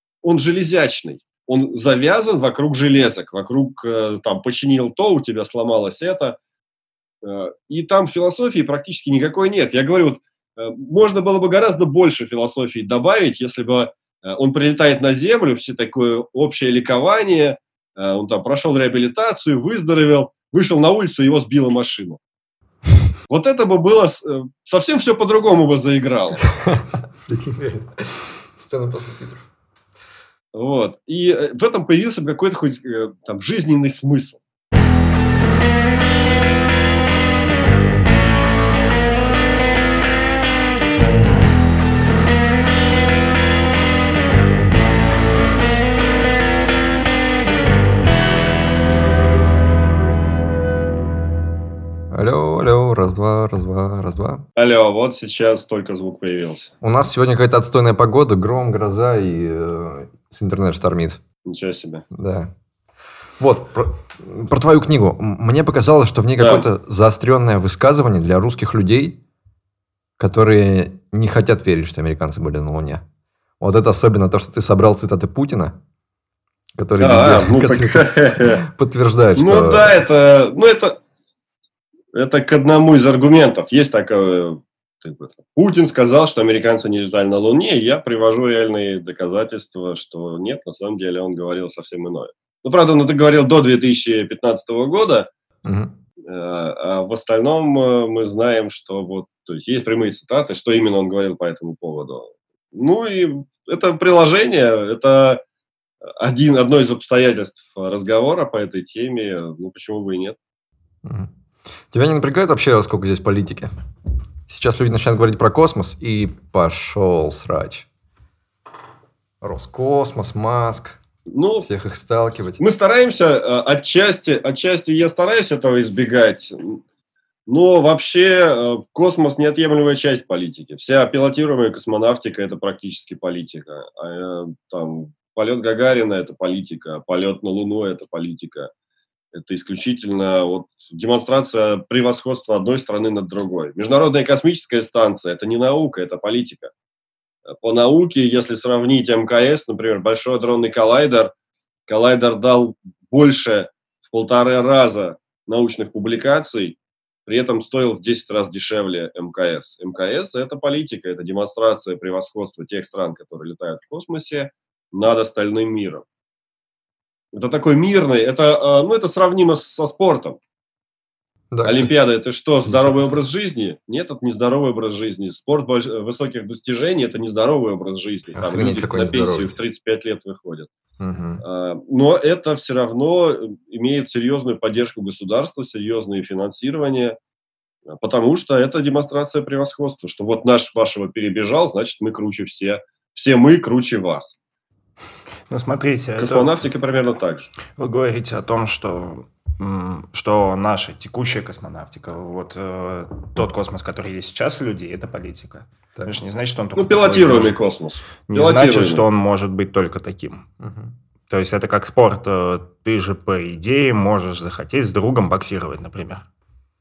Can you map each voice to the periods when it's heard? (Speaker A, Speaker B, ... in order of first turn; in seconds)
Speaker A: 0.2-6.4, 7.2-22.2, 23.3-26.4, 30.5-34.4, 54.5-56.7, 61.5-62.0, 66.4-66.7, 77.0-78.6, 79.3-81.0, 82.1-95.3, 96.2-105.4, 106.1-110.4, 121.3-121.7, 122.6-126.8, 127.5-138.7, 139.3-146.7, 147.5-151.3, 151.9-166.0, 167.3-170.4, 171.6-180.7, 181.4-187.2, 187.9-194.3, 196.2-197.5, 206.8-209.0
Speaker B: 26.6-29.5, 52.1-54.5, 56.8-61.2, 62.1-62.5, 63.4-69.2, 70.2-73.0, 73.6-75.8, 76.8-79.9, 95.6-95.9, 111.0-111.3, 111.9-113.7, 114.5-117.9, 119.4-121.0, 121.6-122.6, 171.5-171.9, 172.6-173.2, 178.3-179.6, 181.0-181.4, 210.6-210.9
Speaker C: 195.5-196.5, 197.8-207.6, 208.3-210.4, 211.3-216.2